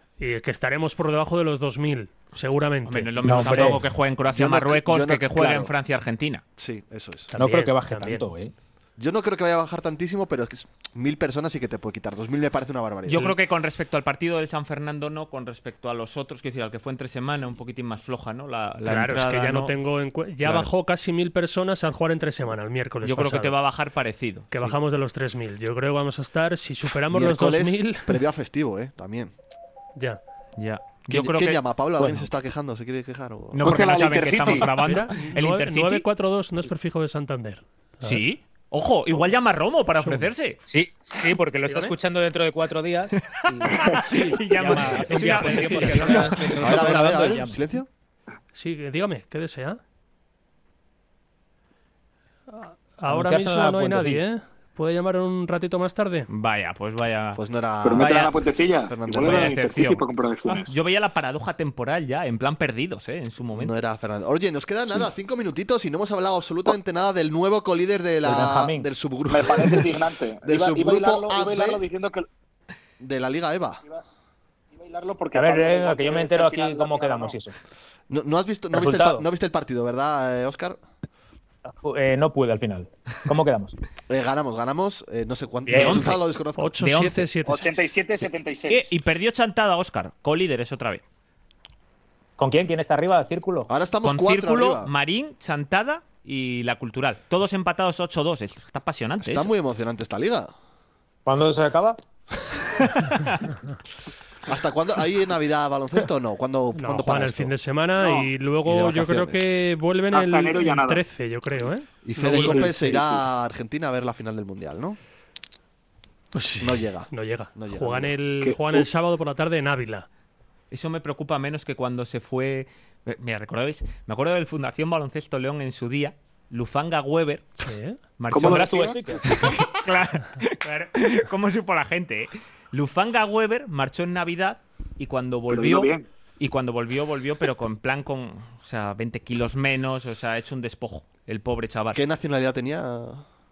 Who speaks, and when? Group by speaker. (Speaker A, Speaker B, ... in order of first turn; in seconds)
Speaker A: 0.2-3.7, 7.3-8.2, 18.8-23.5, 24.5-28.2, 34.6-38.2, 40.0-40.3, 41.6-41.9, 44.0-46.3, 48.5-49.8, 52.5-56.3, 86.6-87.9, 106.7-113.0, 116.3-120.1, 127.6-128.0
Speaker B: 2.9-6.4, 13.1-19.7, 20.4-20.7, 23.0-24.7, 30.6-31.6, 33.5-36.0, 38.0-40.6, 43.3-46.8, 56.3-57.4, 57.9-58.3, 59.1-63.7, 85.7-86.2, 86.8-87.2, 88.7-91.0, 94.0-99.5, 120.7-127.6, 128.2-128.8, 129.3-142.0
Speaker C: 3.2-3.8, 7.3-8.5, 40.7-47.6, 53.1-54.2, 68.2-68.9, 75.3-77.5, 78.7-79.2, 81.7-83.7, 85.7-86.2, 92.4-93.7, 101.2-102.0, 128.3-129.5
Speaker D: 4.3-5.7, 6.6-7.3, 9.0-13.3, 27.1-29.3, 31.1-33.7, 46.6-47.9, 57.4-58.3, 58.9-59.5, 63.5-71.8, 73.0-73.8, 78.1-80.8, 84.1-86.8, 93.7-94.9, 99.2-100.5, 104.5-107.5, 108.6-109.5, 112.0-115.0, 116.6-118.1, 141.9-143.2
Speaker E: 33.6-34.7, 57.8-60.7, 69.3-72.2, 74.7-77.4, 87.5-88.9, 108.0-108.3, 110.1-111.0, 112.3-113.0, 118.4-118.8, 128.3-129.2, 135.5-136.1